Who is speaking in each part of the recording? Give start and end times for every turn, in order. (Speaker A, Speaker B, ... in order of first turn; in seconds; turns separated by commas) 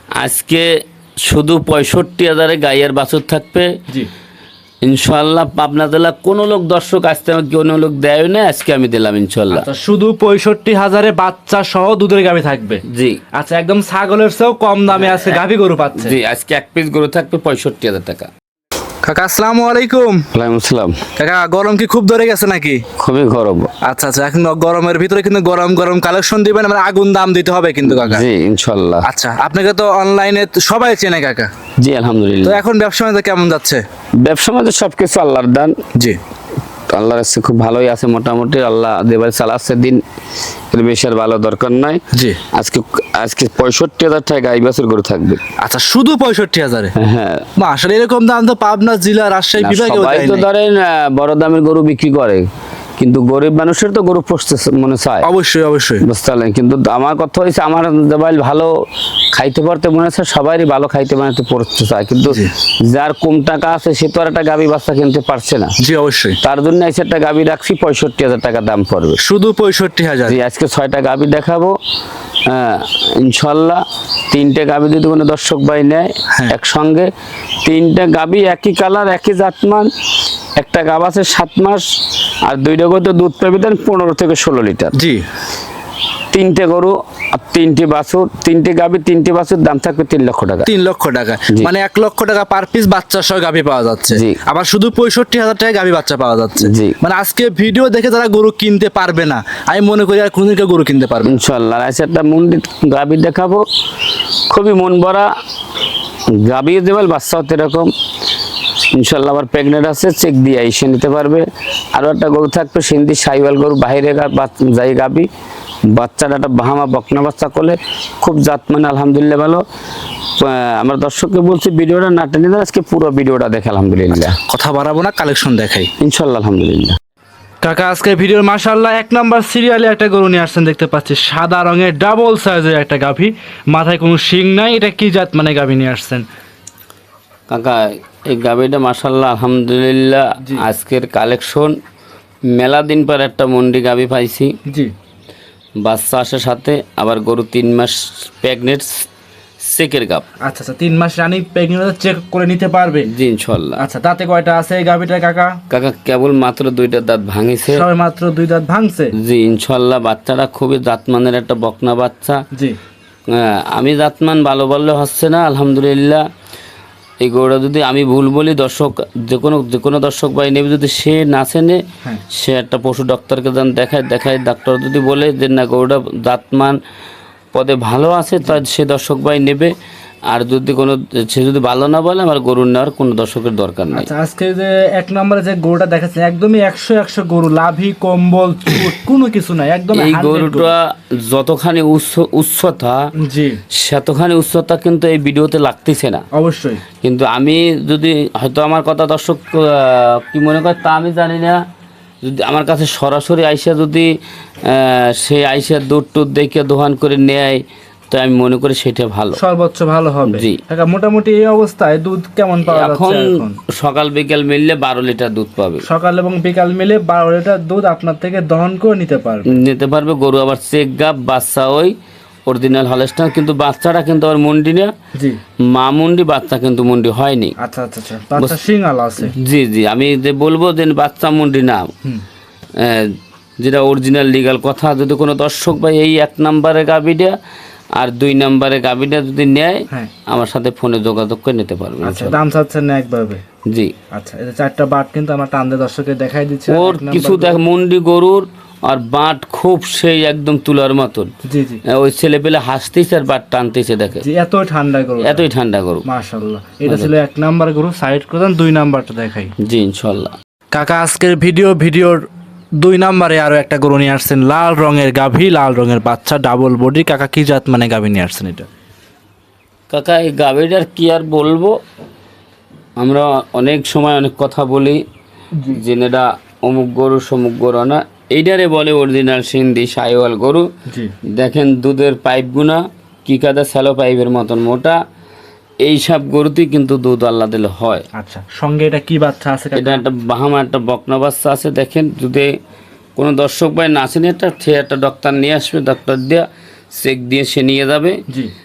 Speaker A: 0.1-0.7, Speaker A: 1.2-3.7, Speaker A: 4.8-9.7, Speaker B: 9.5-12.8, Speaker A: 12.9-13.2, Speaker B: 13.3-16.1, Speaker A: 14.9-15.4, Speaker A: 16.0-18.3, Speaker B: 19.0-20.2, Speaker A: 20.3-21.0, Speaker B: 21.2-22.8, Speaker A: 23.0-23.7, Speaker B: 23.8-28.2, Speaker A: 27.8-29.1, Speaker B: 29.0-31.5, Speaker A: 31.8-32.6, Speaker B: 32.4-33.8, Speaker A: 34.2-35.7, Speaker A: 36.9-40.0, Speaker A: 40.7-42.0, Speaker B: 42.1-42.4, Speaker A: 42.5-45.4, Speaker B: 45.6-46.9, Speaker A: 47.0-47.5, Speaker B: 47.6-50.5, Speaker A: 49.6-52.4, Speaker A: 53.0-55.3, Speaker B: 55.2-56.0, Speaker A: 56.0-58.7, Speaker A: 59.3-65.7, Speaker B: 62.2-62.5, Speaker B: 65.8-66.4, Speaker A: 66.4-69.2, Speaker B: 69.2-70.4, Speaker A: 70.2-71.8, Speaker A: 72.4-77.1, Speaker A: 77.6-79.9, Speaker A: 80.6-81.8, Speaker A: 82.4-85.0, Speaker B: 84.9-85.2, Speaker A: 86.3-90.7, Speaker B: 90.6-101.3, Speaker A: 94.1-94.4, Speaker A: 96.6-97.0, Speaker A: 101.2-103.6, Speaker A: 104.5-105.3, Speaker A: 106.3-107.9, Speaker A: 108.9-115.3, Speaker A: 115.9-119.6, Speaker A: 120.3-124.4, Speaker B: 124.4-125.9, Speaker A: 126.0-127.0, Speaker B: 127.6-136.2, Speaker A: 137.5-141.7, Speaker A: 142.5-144.5, Speaker A: 145.8-149.1, Speaker A: 149.6-150.2, Speaker B: 150.4-153.1, Speaker A: 153.1-153.8, Speaker B: 153.8-155.6, Speaker A: 155.7-157.8, Speaker B: 157.7-159.1, Speaker A: 159.2-162.4, Speaker A: 163.3-166.2, Speaker A: 167.2-171.8, Speaker A: 172.3-176.8, Speaker A: 177.5-179.7, Speaker A: 180.3-184.1, Speaker B: 183.9-190.7, Speaker A: 189.9-193.1, Speaker B: 193.2-193.6, Speaker A: 193.7-196.2, Speaker B: 196.3-196.8, Speaker A: 197.0-201.6, Speaker A: 202.2-204.1, Speaker A: 204.7-209.4, Speaker B: 209.3-213.6, Speaker A: 210.3-210.6, Speaker A: 212.7-215.8, Speaker B: 215.8-219.5, Speaker A: 219.5-221.9, Speaker A: 222.4-224.9, Speaker A: 225.7-227.5, Speaker B: 227.6-229.3, Speaker A: 229.2-231.9, Speaker A: 232.8-237.3, Speaker A: 237.9-242.4, Speaker B: 242.0-243.4, Speaker A: 243.7-243.9, Speaker B: 244.1-247.6, Speaker A: 246.7-251.3, Speaker B: 251.4-251.8, Speaker A: 251.8-254.2, Speaker B: 254.2-255.4, Speaker A: 255.2-256.0, Speaker B: 256.0-259.5, Speaker A: 256.9-257.1, Speaker A: 259.6-260.3, Speaker B: 260.7-262.2, Speaker B: 262.8-268.6, Speaker A: 269.9-271.8, Speaker A: 273.0-275.0, Speaker A: 275.6-280.7, Speaker A: 281.3-285.0, Speaker A: 285.8-288.0, Speaker B: 288.1-290.0, Speaker A: 289.7-292.5, Speaker A: 293.1-298.2